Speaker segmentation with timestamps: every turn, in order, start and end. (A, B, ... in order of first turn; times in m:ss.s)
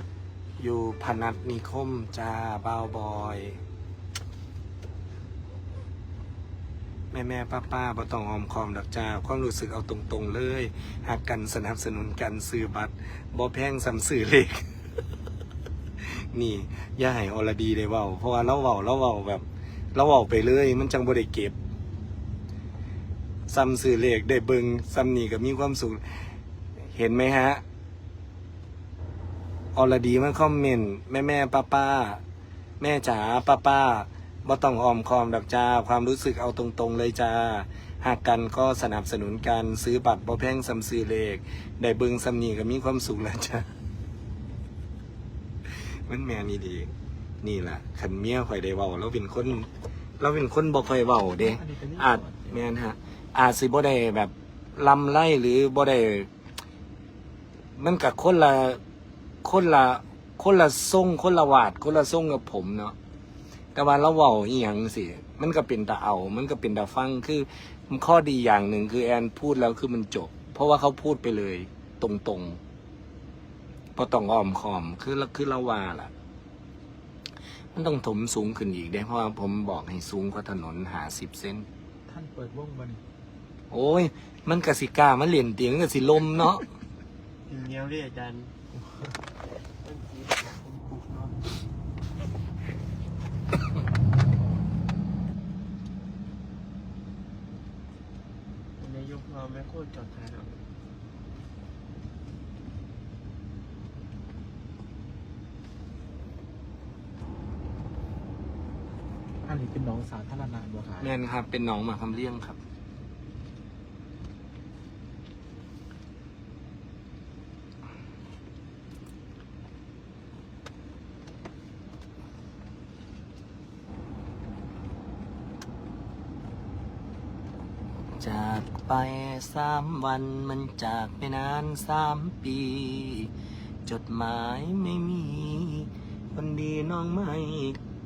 0:00.6-0:03.6 A
0:07.1-0:14.6 A
0:16.0-0:19.4 A
0:20.0-0:21.6 A
0:23.5-0:26.2 A
0:26.8-0:27.6 A
0:29.7-0:32.2 A
0:32.8-0:43.7 A
0:45.7-0:49.7 A
0:50.2-0:56.3 A
0:51.4-0:52.6 B
0:57.8-0:58.8 A
0:59.4-1:03.0 A
1:03.7-1:12.6 A
1:14.0-1:16.1 A
1:17.7-1:21.7 A
1:22.1-1:23.0 B
1:23.7-1:26.7 A
1:27.5-1:28.5 C
1:29.8-1:31.4 C
1:38.8-1:40.6 C
1:49.4-1:51.1 B
1:51.0-1:52.6 A
2:08.2-2:13.3 A
2:13.8-2:17.8 A